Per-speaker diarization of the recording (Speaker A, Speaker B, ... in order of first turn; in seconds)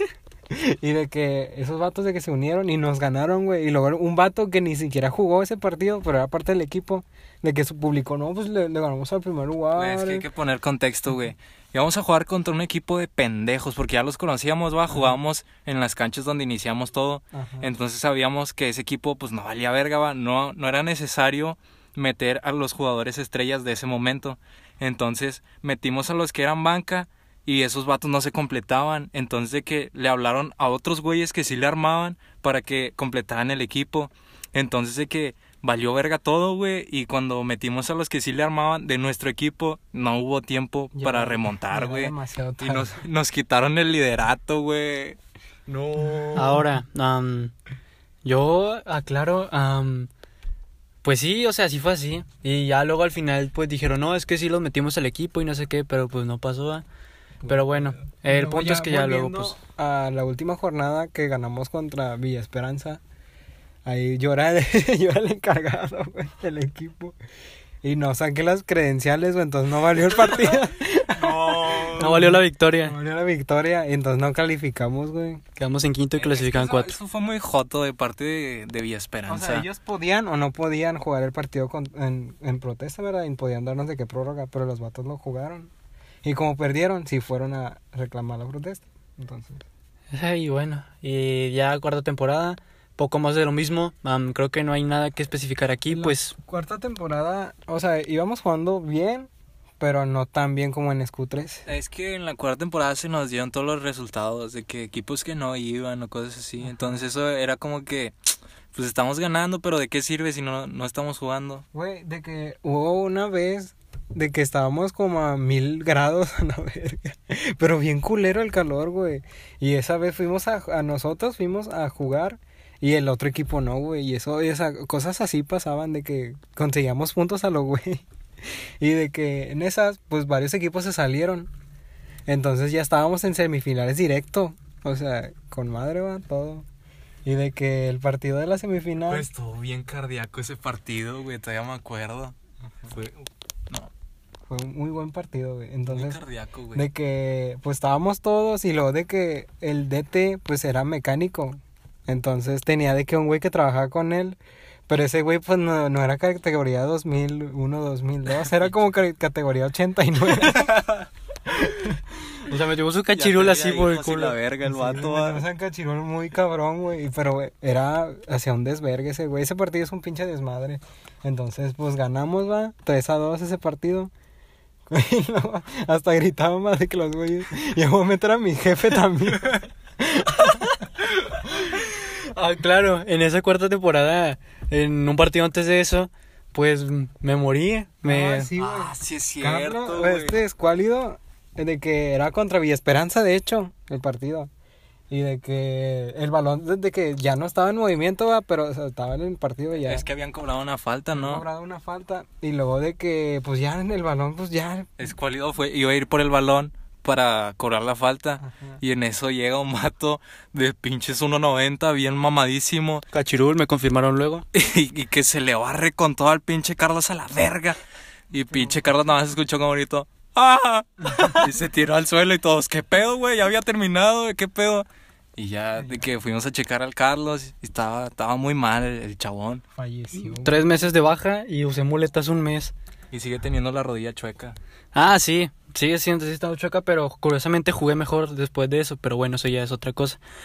Speaker A: 0.5-10.3, 17.3-17.7, 41.0-43.0, 57.4-63.0, 63.9-67.2, 67.8-75.4, 79.3-85.7, 86.2-89.7, 95.9-101.7, 106.6-107.0, 111.7-131.5, 132.3-136.7, 137.2-139.3, 144.5-146.2, 146.7-161.0, 161.5-162.0, 164.6-174.1, 174.9-180.8, 188.0-194.5, 195.1-200.1, 201.1-204.9, 208.4-208.8, 218.5-218.9, 221.1-221.4, 225.8-226.0, 229.8-230.9
Speaker B: 9.8-46.6, 71.1-72.2, 76.2-79.7, 101.7-111.6, 139.1-142.3, 142.9-143.9, 145.9-146.9, 160.6-161.0, 163.1-165.5, 188.6-190.4, 199.8-201.4, 205.0-213.1, 214.5-217.8, 218.3-229.6, 233.1-234.6
Speaker C: 46.3-47.5, 48.2-50.1, 51.0-56.9, 57.5-59.6, 72.0-73.0, 75.6-77.0, 90.1-96.3, 162.4-164.4, 181.3-188.5, 213.1-214.5, 230.3-232.7, 234.9-240.2